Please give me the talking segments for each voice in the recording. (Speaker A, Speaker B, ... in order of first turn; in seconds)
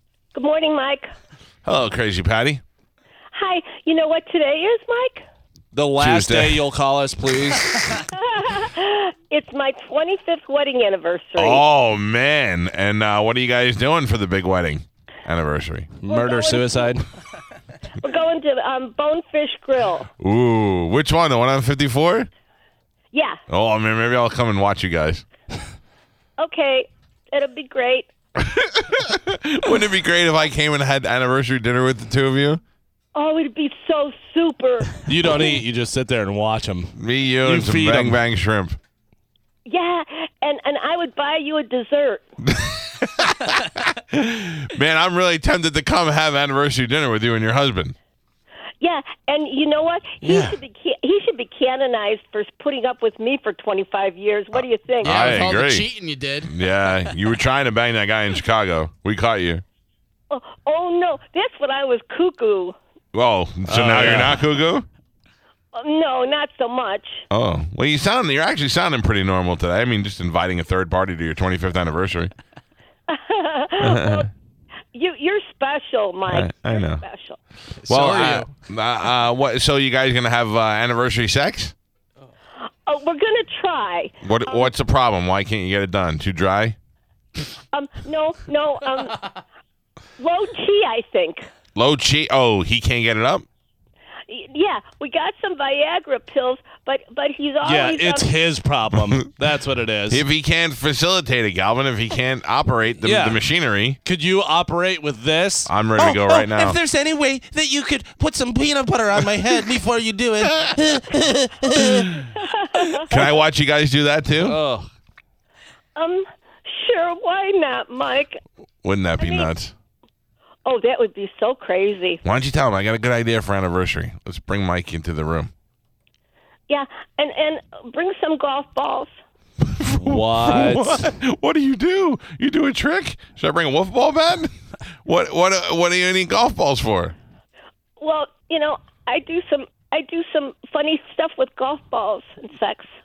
Speaker A: 0.3-1.0, 3.3-5.2, 8.1-11.6, 16.1-16.9, 18.0-20.1, 23.1-23.4, 26.4-28.1, 33.1-35.5, 39.6-42.2, 48.8-55.4, 60.3-62.7, 65.7-67.2, 73.1-74.3, 74.9-77.4, 82.8-84.7, 87.7-89.2, 90.2-91.5, 94.3-98.3, 112.3-113.3, 116.0-118.3, 119.2-119.5, 120.6-122.2, 126.7-129.1, 138.0-142.9
Speaker B: 1.6-2.6, 6.0-6.6, 11.4-15.9, 20.2-22.3, 23.5-25.2, 28.4-32.6, 37.0-38.8, 42.5-47.9, 54.5-55.9, 56.4-59.6, 63.1-64.8, 67.3-72.3, 73.8-74.3, 76.2-77.0, 77.8-81.7, 84.2-86.8, 91.7-93.5, 100.1-104.0, 105.7-106.8, 113.1-114.6, 118.8-119.7, 122.2-125.5, 129.6-134.5, 135.0-137.1
Speaker C: 5.7-8.0, 16.0-17.1, 35.1-38.2, 50.2-50.6, 63.7-64.5, 97.6-100.2, 103.0-103.4, 104.0-112.2, 114.4-114.9, 129.9-131.2
Speaker D: 55.0-56.5, 77.9-78.5